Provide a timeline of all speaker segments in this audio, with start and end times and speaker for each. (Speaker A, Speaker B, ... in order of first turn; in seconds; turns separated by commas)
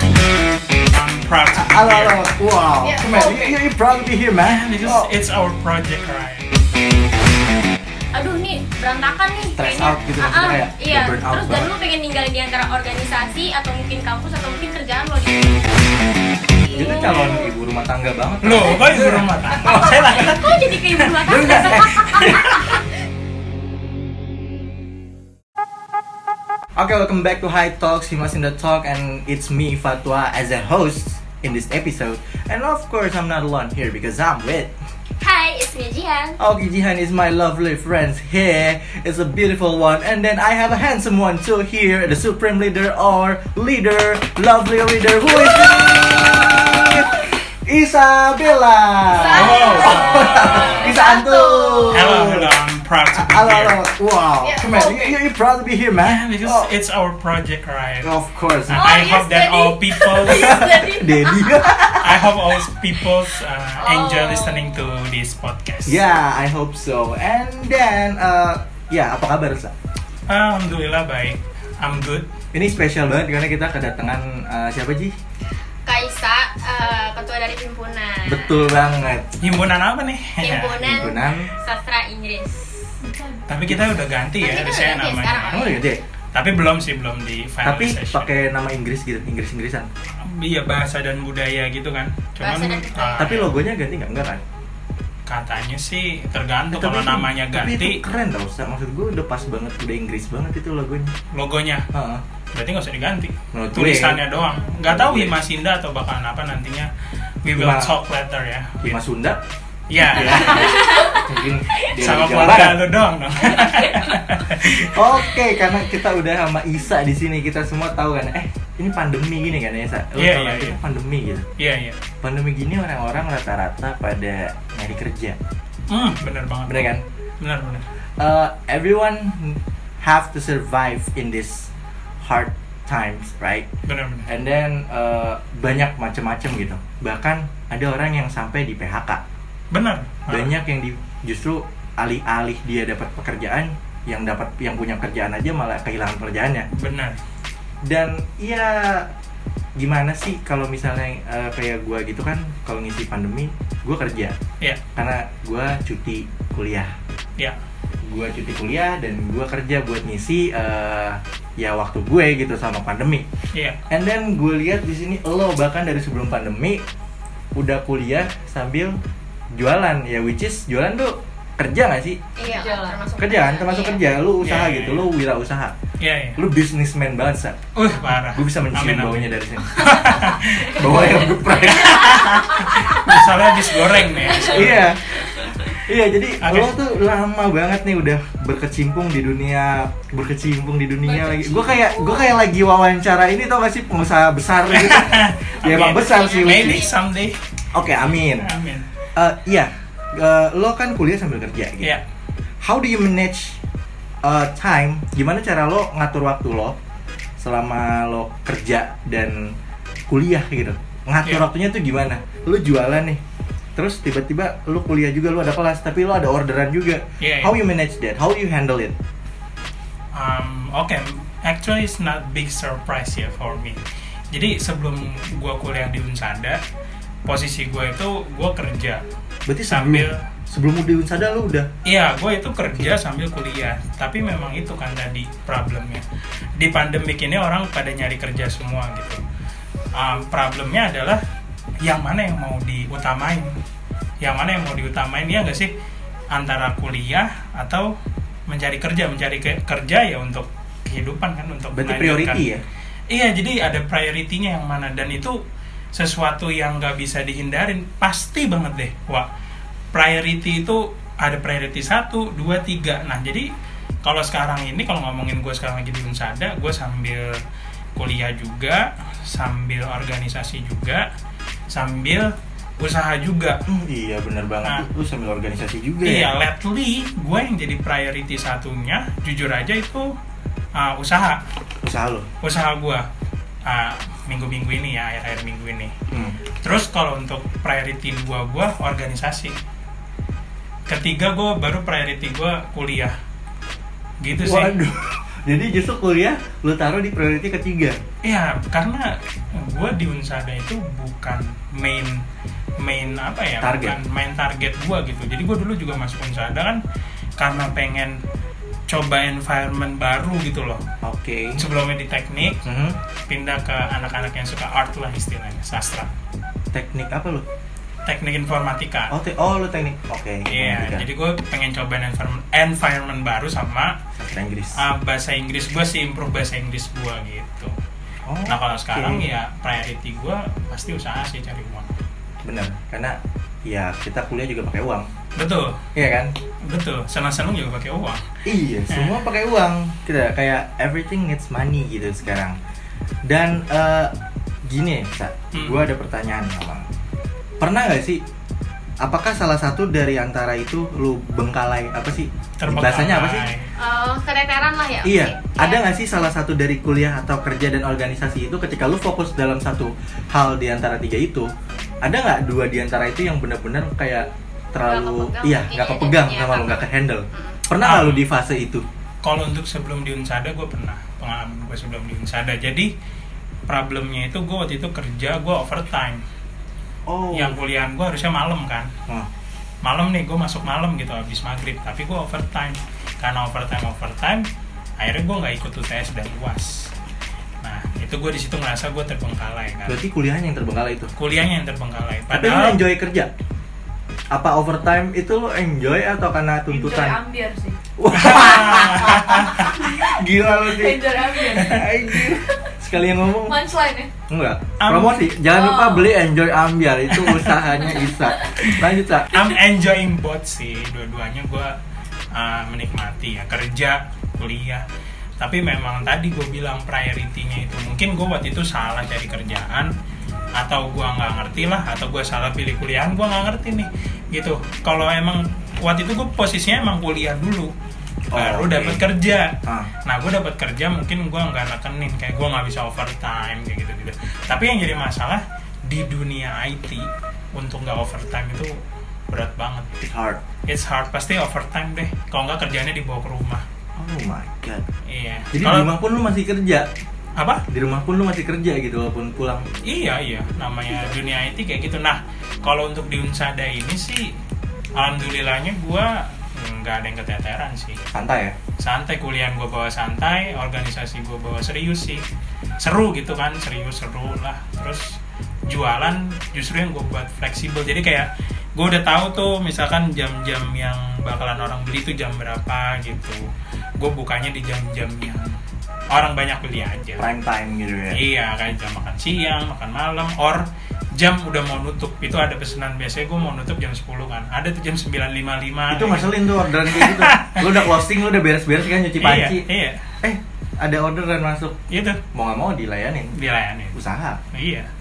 Speaker A: 0.8-2.3, Speaker B: 1.5-5.1, Speaker C: 2.9-3.5, Speaker D: 3.0-3.3, Speaker A: 4.4-6.5, Speaker C: 8.1-15.7, Speaker B: 9.6-11.7, Speaker C: 16.6-17.5, Speaker B: 16.7-20.3, Speaker A: 18.4-22.7, Speaker C: 19.6-22.7, Speaker B: 21.2-22.6, Speaker B: 26.8-34.7, Speaker C: 35.2-36.4, Speaker B: 36.4-52.5, Speaker D: 49.1-51.0, Speaker C: 49.1-52.1, Speaker A: 49.3-50.8, Speaker A: 51.9-53.8, Speaker B: 53.1-56.7, Speaker D: 54.5-55.0, Speaker A: 56.0-58.1, Speaker B: 58.0-58.9, Speaker A: 58.7-60.6, Speaker D: 58.8-61.5, Speaker C: 58.9-59.7, Speaker B: 60.2-62.7, Speaker A: 62.0-66.0, Speaker D: 63.8-64.7, Speaker B: 65.9-69.7, Speaker A: 70.3-72.3, Speaker B: 72.5-75.2, Speaker C: 75.8-78.8, Speaker B: 78.2-79.3, Speaker A: 79.4-81.1, Speaker C: 80.4-83.0, Speaker B: 80.8-81.5, Speaker A: 83.5-85.7, Speaker B: 83.7-84.0, Speaker C: 84.4-85.8, Speaker B: 85.5-86.0, Speaker A: 86.3-88.3, Speaker B: 87.6-89.9, Speaker A: 90.2-93.5, Speaker C: 92.4-93.3, Speaker B: 93.2-94.4, Speaker A: 95.3-98.0, Speaker B: 96.7-101.1, Speaker A: 101.3-101.9, Speaker B: 101.9-102.2, Speaker A: 102.5-106.9, Speaker B: 103.5-104.2, Speaker B: 104.8-105.4, Speaker A: 107.4-109.0, Speaker B: 107.5-108.0, Speaker B: 108.8-109.4, Speaker A: 109.9-110.8, Speaker C: 110.1-111.3, Speaker B: 110.1-112.8, Speaker A: 111.8-115.1, Speaker B: 114.8-121.5, Speaker A: 120.2-120.8, Speaker A: 121.6-122.0, Speaker B: 122.2-125.4, Speaker A: 125.9-126.8, Speaker B: 126.7-127.0, Speaker A: 127.4-127.8, Speaker B: 128.2-133.7, Speaker A: 133.9-134.3, Speaker B: 134.3-139.2, Speaker A: 139.7-140.5, Speaker B: 140.3-146.7, Speaker A: 146.7-147.2, Speaker B: 147.8-149.1, Speaker B: 149.8-154.4, Speaker B: 155.0-156.9, Speaker B: 158.0-163.3, Speaker A: 163.5-163.8, Speaker B: 163.9-166.8, Speaker B: 167.6-169.0, Speaker B: 169.5-172.2, Speaker C: 172.4-174.0, Speaker D: 172.4-173.0, Speaker B: 173.2-175.8, Speaker A: 174.4-175.1, Speaker A: 176.0-176.4, Speaker B: 176.4-182.4, Speaker A: 177.8-185.0, Speaker B: 184.3-196.8, Speaker A: 186.4-186.7, Speaker C: 191.0-192.3, Speaker A: 194.7-197.4, Speaker C: 195.7-197.0, Speaker B: 197.7-198.5, Speaker A: 198.4-198.9, Speaker B: 199.2-202.0, Speaker B: 202.6-203.6, Speaker B: 204.2-206.8, Speaker B: 207.4-209.6, Speaker B: 210.1-213.2, Speaker B: 213.8-219.0, Speaker A: 217.2-217.5, Speaker A: 220.1-226.6, Speaker A: 227.2-229.1, Speaker B: 229.5-231.7, Speaker A: 229.7-230.2, Speaker A: 231.8-236.1, Speaker A: 236.6-239.2, Speaker A: 239.9-241.2, Speaker A: 241.8-243.5, Speaker A: 244.2-245.7, Speaker A: 246.3-247.9, Speaker A: 248.5-252.4, Speaker B: 251.7-252.6, Speaker A: 253.1-255.4, Speaker A: 255.9-259.3, Speaker A: 259.9-263.5, Speaker A: 264.0-267.4, Speaker A: 268.0-271.1, Speaker A: 271.7-273.6, Speaker B: 273.7-276.3, Speaker A: 276.0-280.1, Speaker A: 280.8-281.4, Speaker B: 281.8-282.3, Speaker A: 282.4-283.1, Speaker A: 283.7-285.9, Speaker B: 286.1-286.4, Speaker A: 286.6-289.6, Speaker A: 290.9-293.1, Speaker A: 294.2-294.7, Speaker B: 294.4-298.0, Speaker A: 298.2-302.2, Speaker A: 302.8-306.8, Speaker B: 303.6-304.0, Speaker A: 307.4-308.2, Speaker A: 308.9-310.8, Speaker B: 311.0-311.6, Speaker A: 311.6-312.6, Speaker B: 312.6-313.0, Speaker A: 313.3-316.1, Speaker B: 316.7-317.4, Speaker A: 318.1-319.1, Speaker B: 319.1-321.1, Speaker A: 320.5-324.0, Speaker B: 324.2-324.8, Speaker A: 324.8-327.7, Speaker B: 328.3-329.3, Speaker A: 328.5-331.9, Speaker B: 332.4-335.1, Speaker A: 335.4-335.8, Speaker B: 335.9-336.3, Speaker A: 336.7-338.2, Speaker B: 338.4-342.6, Speaker A: 338.9-339.1, Speaker B: 343.3-344.1, Speaker B: 344.7-346.9, Speaker A: 345.5-345.8, Speaker B: 347.6-348.2, Speaker B: 349.0-353.5, Speaker A: 352.6-353.7, Speaker C: 353.8-355.8, Speaker B: 355.0-361.5, Speaker B: 362.0-368.9, Speaker C: 364.8-367.6, Speaker A: 367.8-368.3, Speaker A: 369.2-372.9, Speaker A: 373.7-376.2, Speaker B: 377.1-377.6, Speaker A: 377.3-378.9, Speaker A: 379.8-384.5, Speaker A: 385.0-386.9, Speaker A: 387.6-390.0, Speaker B: 389.9-391.1, Speaker A: 391.2-392.8, Speaker B: 392.3-393.3, Speaker B: 394.3-397.2, Speaker D: 396.7-397.8, Speaker B: 398.0-403.6, Speaker A: 398.1-399.9, Speaker D: 399.8-402.7, Speaker D: 403.4-404.1, Speaker B: 404.3-409.4, Speaker A: 404.8-405.2, Speaker D: 405.4-406.1, Speaker D: 407.8-408.4, Speaker A: 409.3-411.8, Speaker A: 412.3-414.8, Speaker A: 415.4-419.9, Speaker A: 420.6-427.7, Speaker B: 428.3-429.0, Speaker A: 428.3-438.8, Speaker B: 429.6-429.9, Speaker A: 439.3-439.9, Speaker B: 440.0-440.4, Speaker A: 440.7-443.6, Speaker B: 444.0-444.9, Speaker A: 445.1-445.9, Speaker B: 445.5-446.9, Speaker A: 447.4-447.6, Speaker B: 447.7-449.7, Speaker A: 449.9-454.3, Speaker A: 455.0-458.0, Speaker B: 458.1-458.6, Speaker A: 458.8-462.2, Speaker A: 462.8-473.4, Speaker A: 474.0-475.6, Speaker A: 476.1-477.3, Speaker B: 477.2-478.2, Speaker A: 478.1-487.9, Speaker B: 485.9-489.6, Speaker A: 489.2-490.0, Speaker B: 490.2-491.8, Speaker A: 491.9-492.2, Speaker B: 492.3-493.3, Speaker A: 493.4-494.0, Speaker B: 493.9-494.4, Speaker A: 494.5-494.9